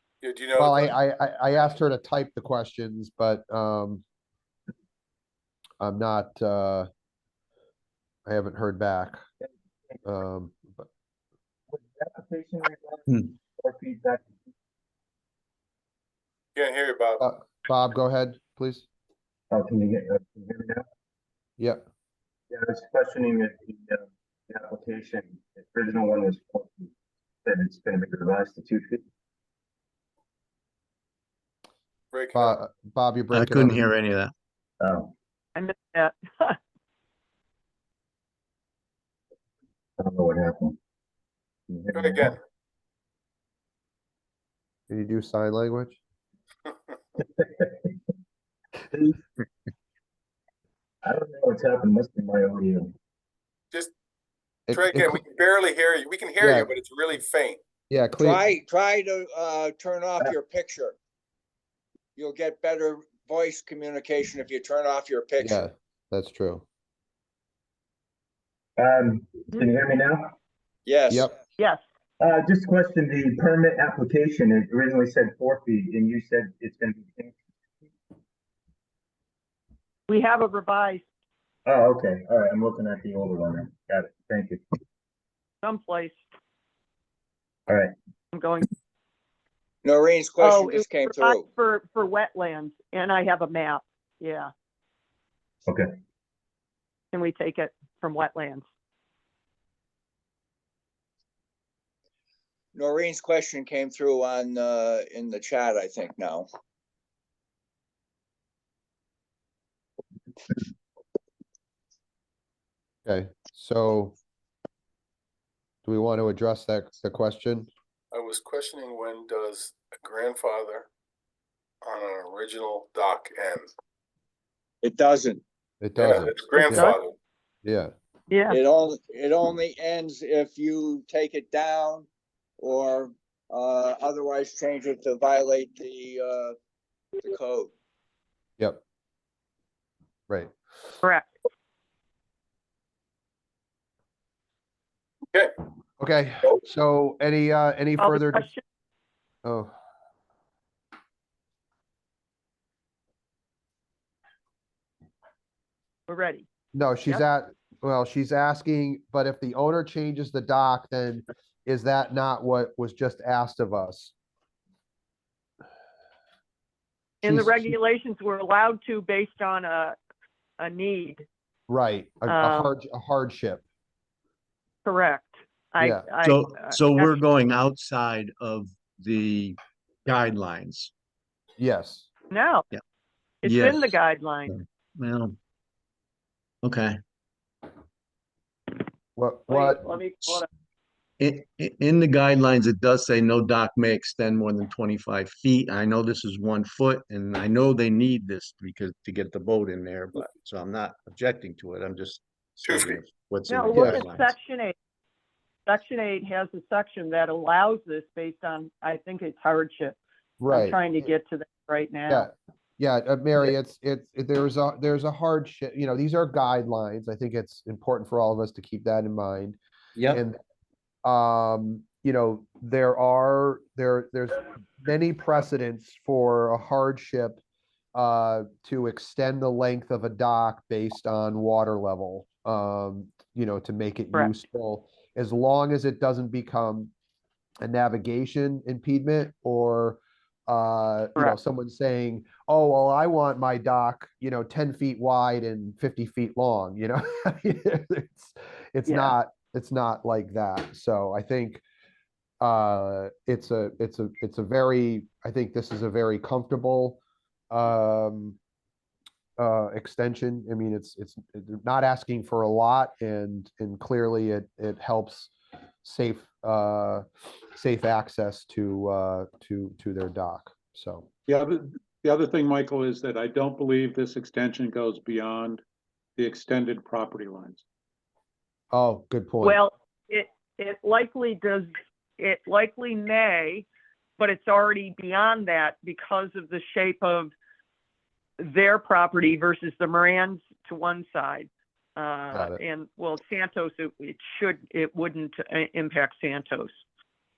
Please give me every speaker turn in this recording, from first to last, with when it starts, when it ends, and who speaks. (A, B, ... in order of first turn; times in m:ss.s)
0:00.2-0:01.0 A
0:00.6-0:04.0 B
0:05.8-0:06.9 B
0:08.2-0:09.2 B
0:09.4-0:10.0 C
0:10.0-0:10.9 B
0:11.7-0:14.4 C
0:16.6-0:17.2 A
0:17.2-0:18.8 B
0:19.5-0:20.8 C
0:22.5-0:26.9 C
0:27.4-0:29.0 C
0:32.1-0:32.6 A
0:32.3-0:33.9 B
0:33.3-0:34.3 D
0:34.8-0:35.1 C
0:35.5-0:36.6 E
0:40.0-0:40.8 C
0:41.7-0:42.3 C
0:41.9-0:42.4 A
0:44.9-0:46.0 B
0:47.2-0:47.9 C
0:48.9-0:49.2 C
0:51.0-0:52.9 C
0:54.7-0:55.2 B
0:54.7-0:57.6 A
0:56.4-0:56.7 B
0:57.9-0:58.4 B
0:58.2-1:01.0 F
1:02.2-1:05.6 F
1:05.4-1:06.6 B
1:08.8-1:10.3 C
1:10.8-1:11.3 F
1:12.2-1:17.4 C
1:20.1-1:21.0 E
1:21.6-1:24.6 C
1:25.6-1:26.2 E
1:27.7-1:27.9 C
1:28.3-1:28.7 E
1:29.8-1:31.4 F
1:30.4-1:34.5 E
1:37.1-1:38.6 E
1:42.7-1:46.5 F
1:53.0-1:54.2 B
1:55.8-1:57.7 B
1:58.1-2:00.9 A
2:01.8-2:03.6 A
2:04.8-2:05.4 F
2:05.8-2:06.9 B
2:06.0-2:07.2 A
2:06.7-2:07.0 E
2:07.6-2:07.9 B
2:08.3-2:08.6 E
2:08.5-2:12.1 F
2:12.6-2:16.6 F
2:17.2-2:17.7 F
2:26.0-2:28.5 B
2:28.0-2:28.6 E
2:29.4-2:29.7 B
2:36.1-2:36.5 E
2:36.7-2:44.1 B
2:47.2-2:50.0 E
2:47.2-2:47.7 B
2:50.6-2:51.2 E
2:51.7-2:53.6 B
2:52.3-2:52.7 E
2:54.8-2:57.2 E
2:55.8-2:56.1 B
2:56.2-3:00.9 D
3:01.6-3:02.1 B
3:02.3-3:02.6 E
3:03.4-3:04.6 E
3:03.4-3:03.9 D
3:04.5-3:05.4 D
3:06.6-3:07.0 D
3:09.2-3:09.9 B
3:09.5-3:10.5 E
3:11.2-3:24.3 D
3:22.6-3:23.0 A
3:23.5-3:24.7 E
3:23.7-3:24.0 B
3:25.6-3:32.3 E
3:30.4-3:31.1 B
3:32.1-3:39.6 B
3:40.1-3:40.4 B
3:41.0-3:47.4 B
3:47.9-3:56.9 B
3:57.6-4:11.6 B
4:08.9-4:09.1 E
4:12.4-4:18.4 B
4:19.4-4:31.1 B
4:31.3-4:35.6 G
4:36.2-4:37.6 G
4:38.7-4:39.6 B
4:39.4-4:43.7 E
4:44.2-4:47.3 E
4:48.4-4:56.8 E
4:52.3-4:52.6 B